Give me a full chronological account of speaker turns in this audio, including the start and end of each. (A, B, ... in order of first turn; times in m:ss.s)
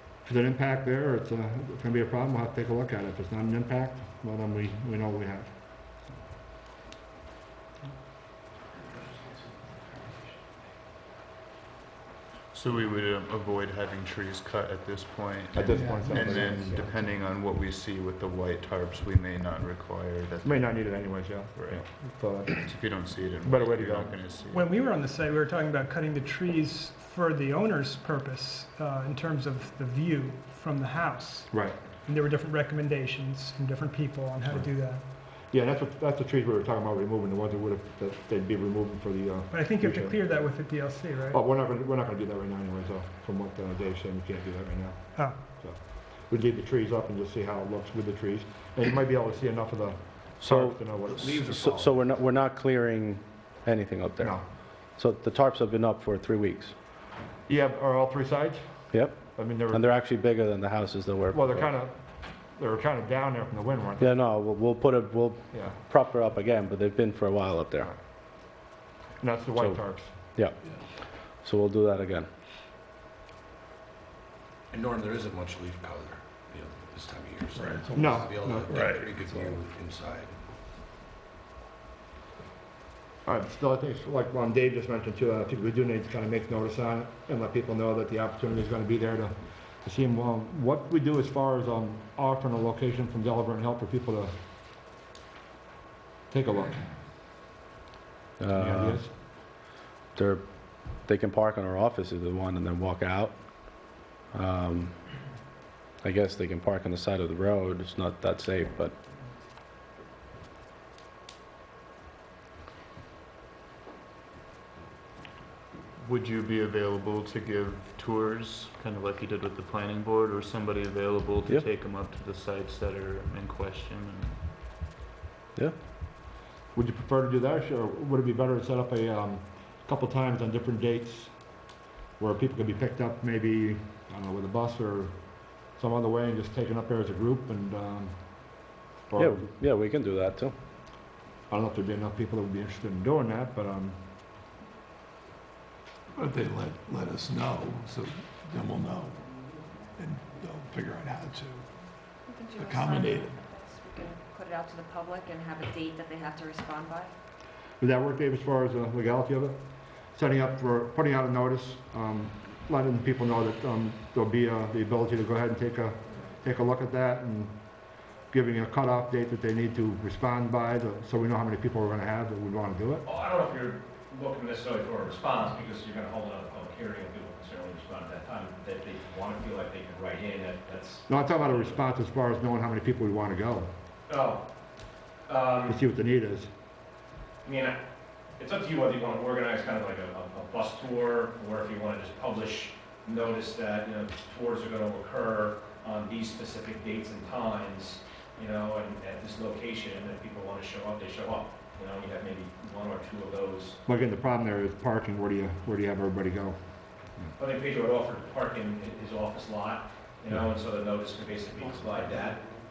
0:00.2-0:05.6 A
0:12.5-0:21.8 B
0:15.5-0:17.1 A
0:15.7-0:16.7 C
0:20.4-0:24.2 A
0:22.5-0:24.7 B
0:24.5-0:35.0 C
0:31.5-0:31.8 A
0:34.5-0:40.2 A
0:39.5-0:41.4 C
0:41.3-0:51.3 A
0:50.4-0:56.7 D
0:51.1-0:52.0 E
0:57.5-0:58.6 A
0:58.9-1:01.7 D
0:59.3-0:59.8 A
1:01.3-1:04.1 A
1:04.0-1:07.9 D
1:09.2-1:10.1 A
1:09.6-1:10.6 D
1:11.4-1:12.3 D
1:14.7-1:20.4 E
1:17.6-1:19.1 F
1:17.9-1:18.7 A
1:23.2-1:34.4 A
1:36.3-1:36.9 A
1:38.4-1:39.1 D
1:38.5-1:39.1 A
1:40.2-1:45.0 D
1:46.0-1:49.0 D
1:56.0-2:04.4 B
2:06.7-2:19.5 A
2:19.2-2:20.6 D
2:21.5-2:24.0 A
2:26.1-2:29.2 F
2:30.0-2:31.7 F
2:32.3-2:37.1 G
2:32.5-2:33.4 F
2:37.8-2:53.0 A
2:53.0-3:01.8 H
3:01.1-3:03.7 A
3:04.1-3:04.4 H
3:05.3-3:05.8 H
3:05.7-3:06.5 A
3:07.4-3:07.8 H
3:08.4-3:23.8 H
3:23.9-3:26.6 A
3:27.4-3:32.5 H